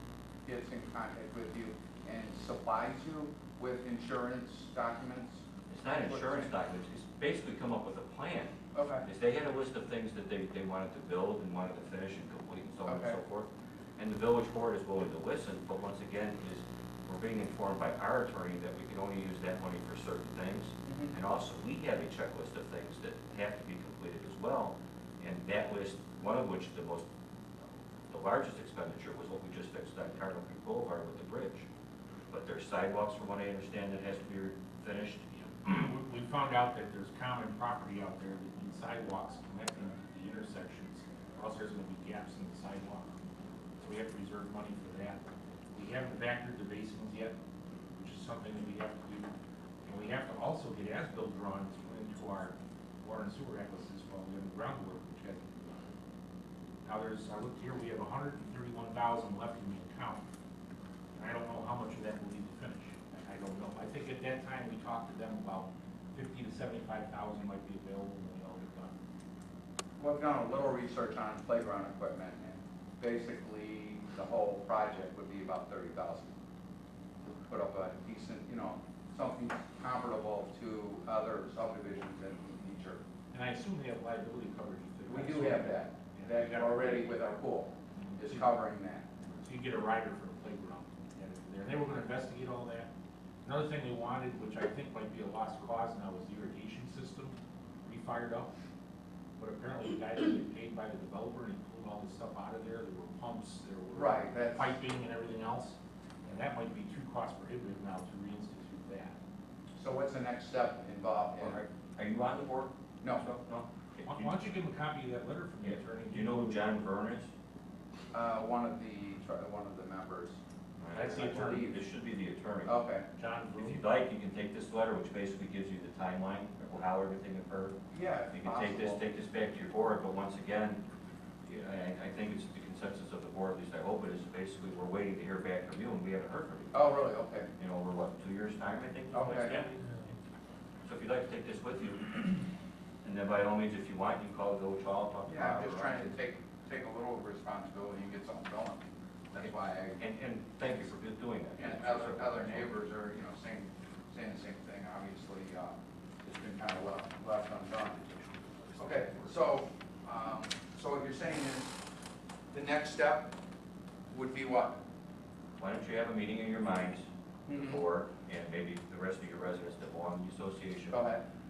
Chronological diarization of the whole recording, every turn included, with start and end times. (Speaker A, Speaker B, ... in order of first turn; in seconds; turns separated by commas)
Speaker A: 0.4-6.5, Speaker B: 5.7-27.1, Speaker A: 8.7-9.1, Speaker A: 12.8-13.2, Speaker A: 20.8-21.1, Speaker B: 28.1-31.7, Speaker B: 32.3-35.7, Speaker C: 35.3-43.2, Speaker C: 43.8-47.4, Speaker C: 47.9-49.3, Speaker C: 49.8-56.0, Speaker C: 56.8-60.2, Speaker C: 61.1-69.0, Speaker A: 70.0-76.3, Speaker A: 77.2-83.0, Speaker C: 83.3-87.2, Speaker A: 85.1-89.0, Speaker C: 87.9-88.5, Speaker C: 89.4-92.9, Speaker C: 93.4-98.5, Speaker C: 99.4-109.2, Speaker A: 103.9-104.7, Speaker A: 109.8-111.6, Speaker B: 111.4-114.3, Speaker C: 114.0-116.8, Speaker B: 115.6-117.3, Speaker A: 118.1-120.4, Speaker B: 120.8-122.7, Speaker C: 120.9-121.7, Speaker A: 121.0-121.8, Speaker A: 122.6-123.0, Speaker C: 123.1-123.8, Speaker B: 123.6-127.8, Speaker A: 127.9-129.0, Speaker B: 128.3-130.8, Speaker B: 131.4-136.8, Speaker A: 136.7-137.5, Speaker B: 137.6-139.8, Speaker A: 139.1-139.6, Speaker B: 140.8-142.4, Speaker B: 143.0-146.1, Speaker A: 145.3-150.0, Speaker B: 149.4-152.8, Speaker A: 151.6-158.0, Speaker B: 158.0-159.3, Speaker A: 158.8-161.7, Speaker A: 162.5-163.3, Speaker A: 164.1-164.8, Speaker B: 165.6-171.0, Speaker A: 167.5-167.8, Speaker A: 170.9-171.2